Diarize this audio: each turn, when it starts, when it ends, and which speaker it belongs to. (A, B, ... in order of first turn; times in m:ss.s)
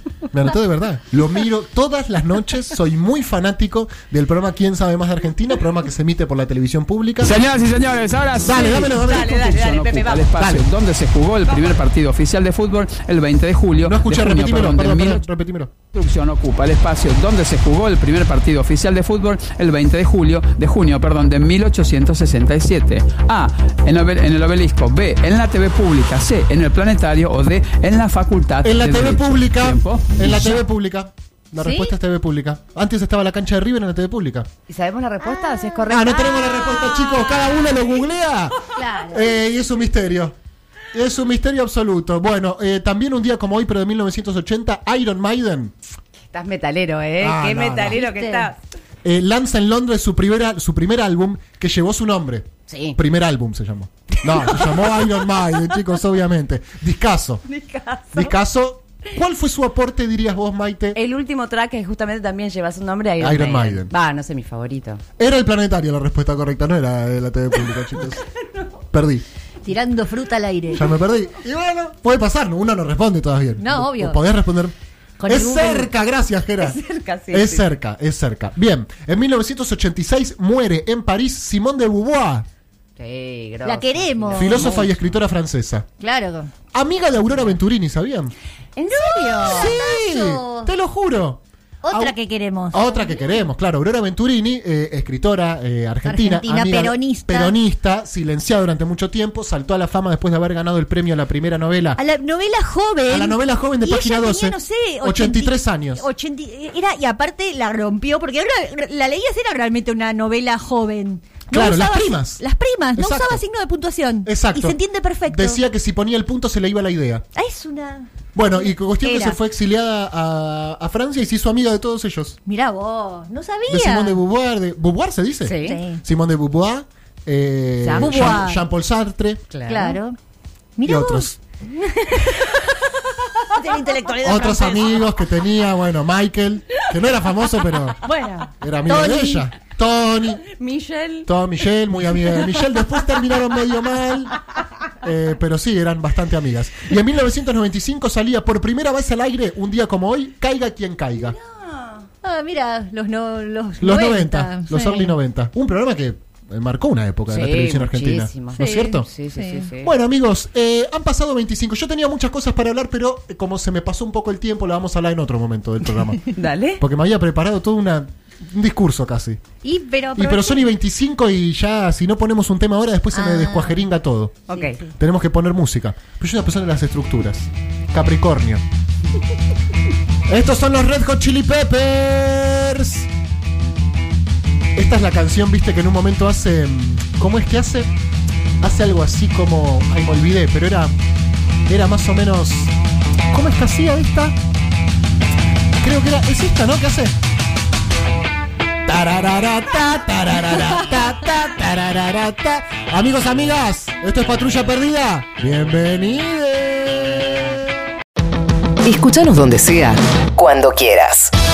0:00.3-0:07.3 A
0:07.2-0:15.2 B
0:08.4-0:09.3 A
0:08.9-0:10.3 C
0:10.4-0:10.6 A
0:13.8-0:15.7 A
0:15.9-0:30.6 B
0:28.6-0:34.5 A
0:31.6-0:31.9 C
0:34.7-0:37.6 C
0:35.9-0:40.4 A
0:38.8-0:39.2 D
0:40.9-0:45.8 A
0:46.3-0:48.6 C
0:47.2-0:48.0 A
0:47.9-0:48.5 D
0:49.0-0:57.4 A
0:52.7-0:53.0 C
0:54.4-0:55.0 C
0:57.4-0:58.3 C
0:58.1-1:01.0 A
1:00.9-1:05.0 C
1:03.2-1:03.9 A
1:05.2-1:08.2 A
1:08.9-1:09.2 A
1:09.6-1:10.9 D
1:10.7-1:14.7 A
1:13.6-1:14.2 D
1:15.2-1:15.9 D
1:15.2-1:16.8 A
1:16.6-1:17.7 C
1:17.3-1:22.4 A
1:23.0-1:25.1 C
1:23.6-1:24.7 D
1:24.3-1:25.8 A
1:26.0-1:26.5 D
1:26.7-1:28.3 A
1:28.8-1:29.8 C
1:29.0-1:30.7 D
1:29.4-1:32.1 A
1:31.8-1:33.1 D
1:32.7-1:42.0 A
1:36.0-1:37.6 D
1:42.0-1:55.6 D
1:43.1-1:46.0 A
1:51.5-1:52.4 A
1:52.9-1:53.4 A
1:54.2-1:57.2 A
1:57.3-1:59.4 D
1:58.3-2:02.4 A
2:02.4-2:04.2 D
2:03.7-2:09.4 A
2:05.4-2:05.8 C
2:05.6-2:06.0 D
2:07.8-2:08.5 C
2:08.0-2:08.7 D
2:09.5-2:10.0 C
2:09.7-2:10.2 D
2:10.8-2:11.3 D
2:10.8-2:11.4 A
2:12.0-2:12.8 C
2:13.5-2:15.0 D
2:14.2-2:18.0 A
2:18.0-2:19.5 D
2:18.6-2:20.4 A
2:20.5-2:21.3 C
2:21.2-2:24.4 A
2:25.0-2:31.4 A
2:31.1-2:32.1 C
2:32.2-2:35.2 D
2:33.8-2:39.1 A
2:37.3-2:39.9 C
2:39.3-2:39.7 D
2:39.8-2:46.2 A
2:46.3-2:46.8 C
2:46.8-2:49.4 A
2:49.6-2:50.7 D
2:50.1-2:54.4 A
2:53.1-2:53.9 D
2:54.5-2:54.8 C
2:54.5-2:54.9 D
2:55.0-2:58.6 A
3:00.3-3:03.1 A
3:04.8-3:07.9 A
3:08.6-3:10.9 A
3:11.7-3:12.7 A
3:13.3-3:14.4 A
3:15.8-3:17.2 A
3:18.8-3:27.4 A
3:28.8-3:31.3 E